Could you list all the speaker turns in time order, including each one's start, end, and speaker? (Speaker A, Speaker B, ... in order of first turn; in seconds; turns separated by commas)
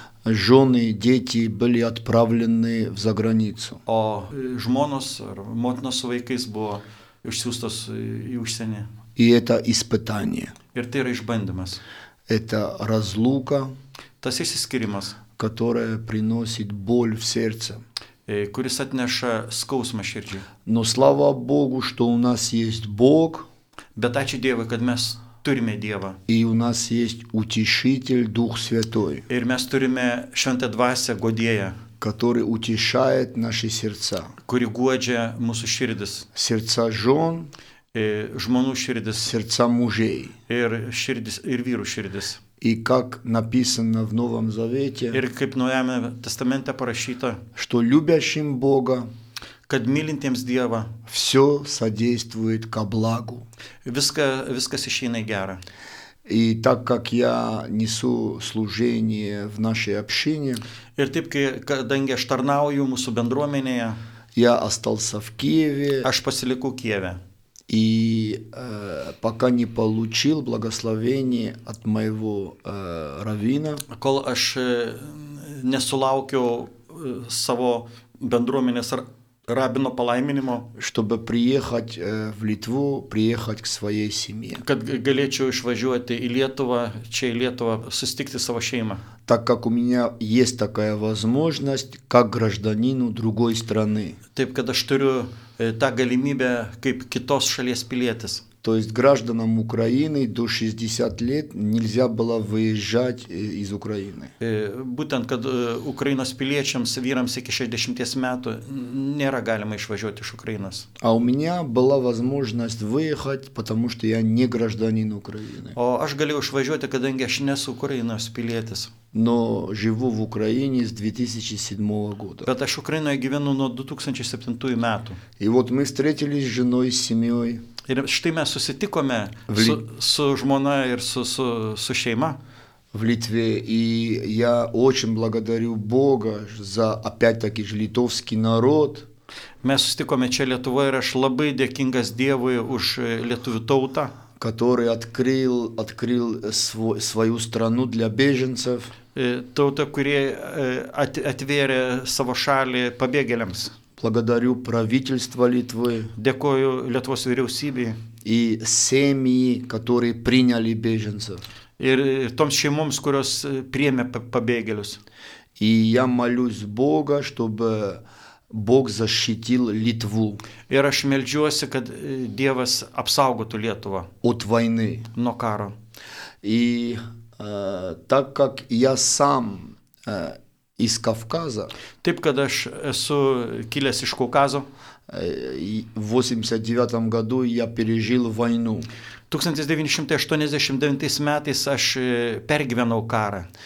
Speaker A: 0.2-3.8, Speaker B: 3.9-8.9, Speaker A: 9.2-10.5, Speaker B: 10.7-11.8, Speaker A: 12.3-13.7, Speaker B: 14.2-15.2, Speaker A: 15.4-17.8, Speaker B: 18.3-20.4, Speaker A: 20.6-23.5, Speaker B: 23.9-26.2, Speaker A: 26.3-29.2, Speaker B: 29.3-31.8, Speaker A: 32.0-34.3, Speaker B: 34.5-36.2, Speaker A: 36.3-37.5, Speaker B: 37.9-39.3, Speaker A: 39.2-40.3, Speaker B: 40.5-42.4, Speaker A: 42.6-45.2, Speaker B: 45.1-47.4, Speaker A: 47.5-49.1, Speaker B: 49.7-50.9, Speaker A: 51.1-53.5, Speaker B: 53.8-55.6, Speaker A: 56.2-60.6, Speaker B: 61.0-64.0, Speaker A: 64.3-66.1, Speaker B: 66.0-67.2, Speaker A: 67.7-73.8, Speaker B: 73.9-80.7, Speaker A: 80.8-84.6, Speaker B: 84.6-89.0, Speaker A: 89.2-94.2, Speaker B: 94.3-98.4, Speaker A: 98.6-104.3, Speaker B: 104.4-110.9, Speaker A: 111.0-115.8, Speaker B: 115.7-118.9, Speaker A: 119.1-122.5, Speaker B: 122.4-125.2, Speaker A: 125.4-127.6, Speaker B: 127.8-132.4, Speaker A: 129.5-129.8, Speaker A: 132.9-139.1, Speaker B: 139.6-144.1, Speaker A: 144.4-148.9, Speaker B: 149.1-153.7, Speaker A: 154.0-156.1, Speaker B: 156.2-158.0, Speaker A: 158.2-161.4, Speaker B: 161.8-165.0, Speaker A: 165.6-170.4, Speaker B: 170.7-174.1, Speaker A: 174.2-175.1, Speaker B: 175.1-175.7, Speaker A: 176.4-181.7, Speaker B: 182.0-184.7, Speaker A: 185.1-188.9, Speaker B: 189.3-193.5